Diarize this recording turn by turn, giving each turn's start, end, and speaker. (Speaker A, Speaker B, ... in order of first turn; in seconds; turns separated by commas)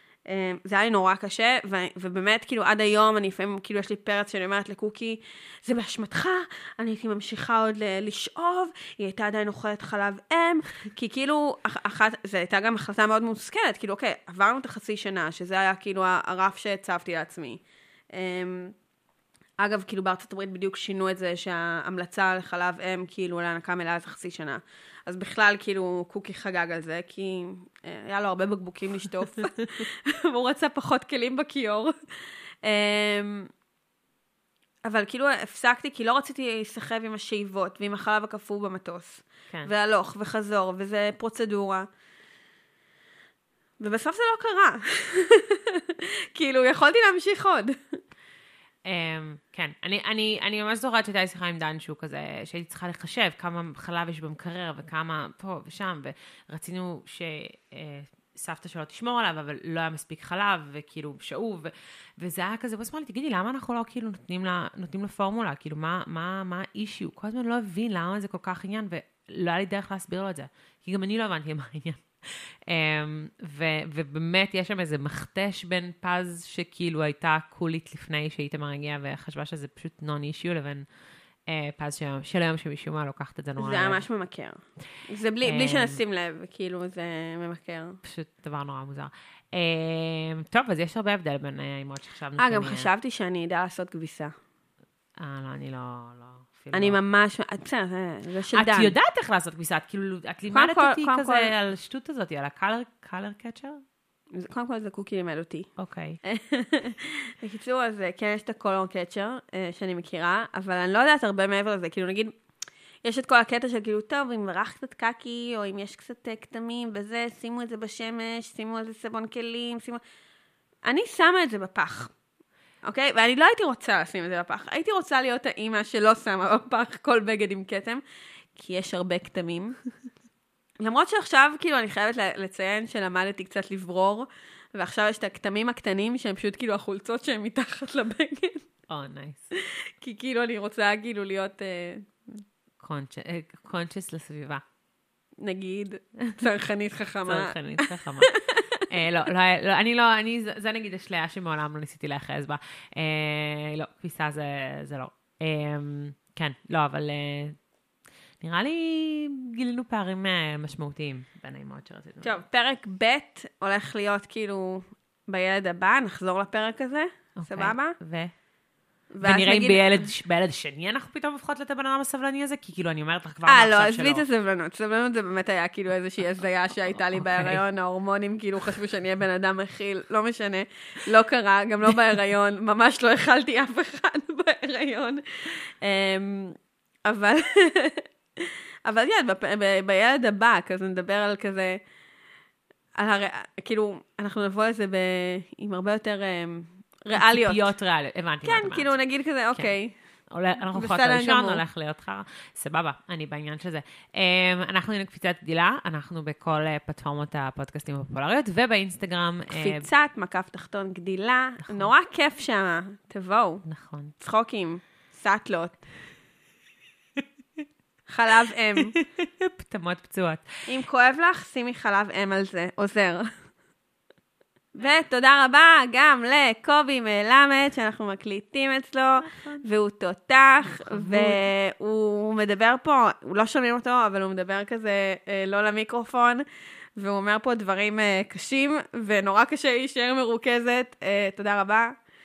Speaker A: 0.3-17.6, Speaker A: 18.1-18.8, Speaker A: 19.6-33.5, Speaker A: 34.8-41.9, Speaker A: 43.8-48.0, Speaker B: 48.9-72.1, Speaker B: 72.7-80.9, Speaker B: 81.5-84.0, Speaker A: 83.6-88.0, Speaker B: 85.4-86.0, Speaker B: 88.0-92.9, Speaker A: 92.4-94.3, Speaker B: 95.2-97.0, Speaker A: 96.7-98.9, Speaker B: 98.5-103.8, Speaker A: 100.5-101.5, Speaker A: 104.3-105.7, Speaker B: 105.8-106.2, Speaker A: 106.2-112.3, Speaker A: 113.0-120.0, Speaker A: 120.8-122.1, Speaker A: 122.8-128.0, Speaker A: 128.6-129.8, Speaker A: 130.8-138.7, Speaker B: 138.9-139.5, Speaker A: 139.7-142.4, Speaker B: 142.8-144.6, Speaker A: 145.4-148.8, Speaker B: 147.2-148.3, Speaker B: 148.9-157.6, Speaker B: 158.4-162.4, Speaker A: 162.2-168.0, Speaker B: 167.4-168.3, Speaker A: 169.1-170.1, Speaker B: 169.2-174.2, Speaker A: 173.5-191.8, Speaker B: 177.2-177.6, Speaker A: 193.0-197.7, Speaker B: 197.1-198.9, Speaker A: 198.4-199.9, Speaker B: 200.3-209.9, Speaker A: 200.7-201.6, Speaker A: 209.5-213.6, Speaker B: 213.7-214.2, Speaker A: 214.2-215.8, Speaker A: 218.1-218.9, Speaker B: 218.8-220.5, Speaker A: 220.7-223.3, Speaker A: 224.8-242.0, Speaker B: 229.3-229.6, Speaker B: 230.7-231.5